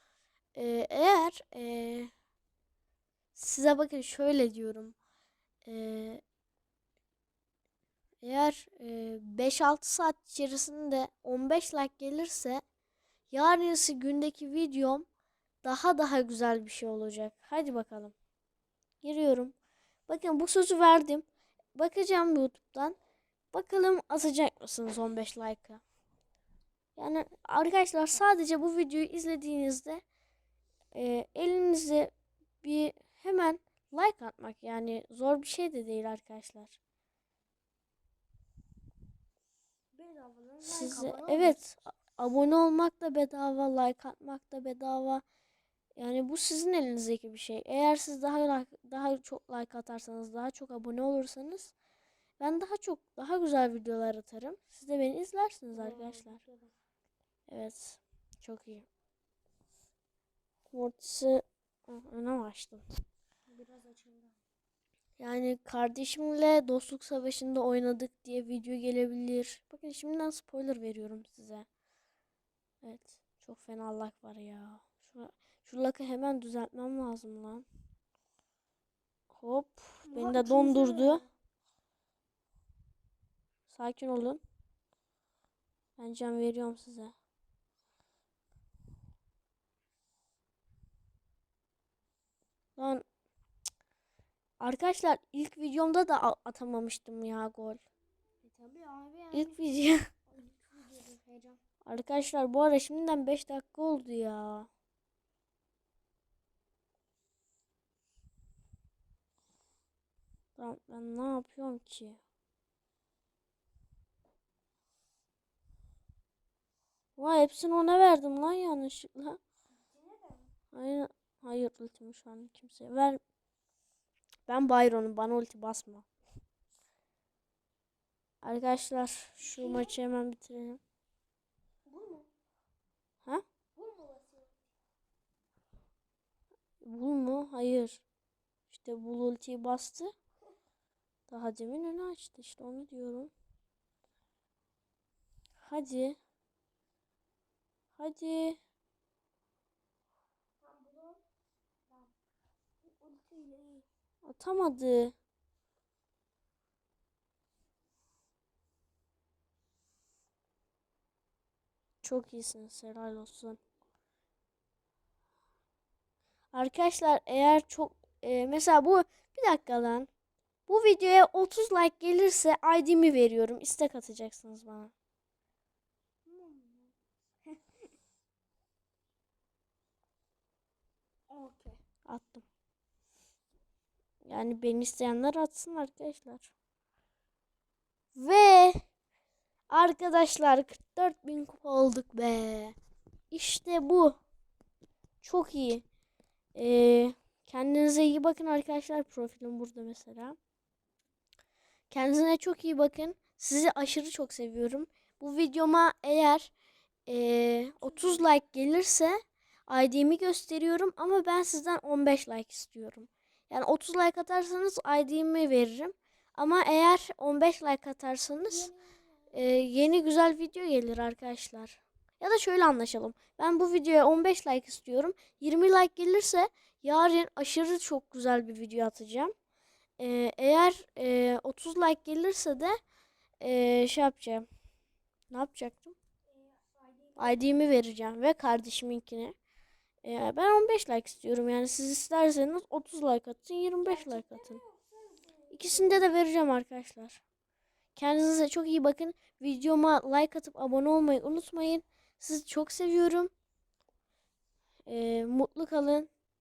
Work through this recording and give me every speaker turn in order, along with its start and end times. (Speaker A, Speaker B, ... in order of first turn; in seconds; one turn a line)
Speaker A: 0.5-2.1
Speaker A: 3.3-5.0
Speaker A: 5.6-6.2
Speaker A: 8.2-12.6
Speaker A: 13.3-15.1
Speaker A: 15.6-18.1
Speaker A: 19.0-19.5
Speaker A: 20.1-23.0
Speaker A: 23.5-25.8
Speaker A: 26.9-30.0
Speaker A: 30.9-36.8
Speaker B: 39.9-41.6
Speaker A: 40.6-45.2
Speaker A: 46.0-51.7
Speaker A: 52.4-56.4
Speaker B: 55.7-56.7
Speaker A: 57.5-58.9
Speaker A: 60.7-62.8
Speaker B: 63.5-64.4
Speaker A: 65.2-71.7
Speaker A: 72.8-77.7
Speaker A: 79.3-81.2
Speaker B: 80.1-81.3
Speaker A: 83.7-84.4
Speaker A: 86.0-87.1
Speaker A: 92.8-93.0
Speaker A: 94.6-97.8
Speaker B: 98.4-99.6
Speaker A: 99.3-100.0
Speaker B: 100.3-101.6
Speaker A: 101.8-104.7
Speaker A: 110.6-112.2
Speaker A: 117.2-119.4
Speaker B: 119.8-120.5
Speaker A: 120.7-123.2
Speaker A: 124.5-126.0
Speaker A: 128.4-130.8
Speaker B: 129.4-130.0
Speaker B: 131.9-132.3
Speaker B: 133.7-134.6
Speaker A: 136.8-138.0
Speaker A: 138.7-140.1
Speaker A: 141.3-143.3
Speaker A: 145.6-146.2
Speaker A: 147.9-148.6
Speaker B: 150.6-151.2
Speaker B: 152.8-153.8
Speaker A: 154.2-155.1
Speaker A: 162.0-163.6
Speaker A: 166.5-170.1
Speaker A: 170.7-174.9
Speaker B: 176.2-176.9
Speaker B: 181.3-181.8
Speaker A: 182.1-182.4
Speaker A: 184.2-186.5
Speaker A: 188.1-188.8
Speaker A: 189.7-192.7
Speaker A: 193.3-194.2
Speaker A: 195.2-195.8
Speaker A: 196.5-200.4
Speaker A: 201.9-206.5
Speaker A: 207.1-218.7
Speaker B: 207.8-208.2
Speaker B: 218.5-219.0
Speaker A: 219.3-229.3
Speaker A: 230.0-232.8
Speaker A: 233.4-234.4
Speaker A: 235.3-235.9
Speaker B: 236.3-237.4
Speaker A: 237.2-239.3
Speaker A: 240.0-244.6
Speaker B: 243.8-246.1
Speaker A: 245.5-247.2
Speaker A: 247.9-253.3
Speaker A: 254.9-256.1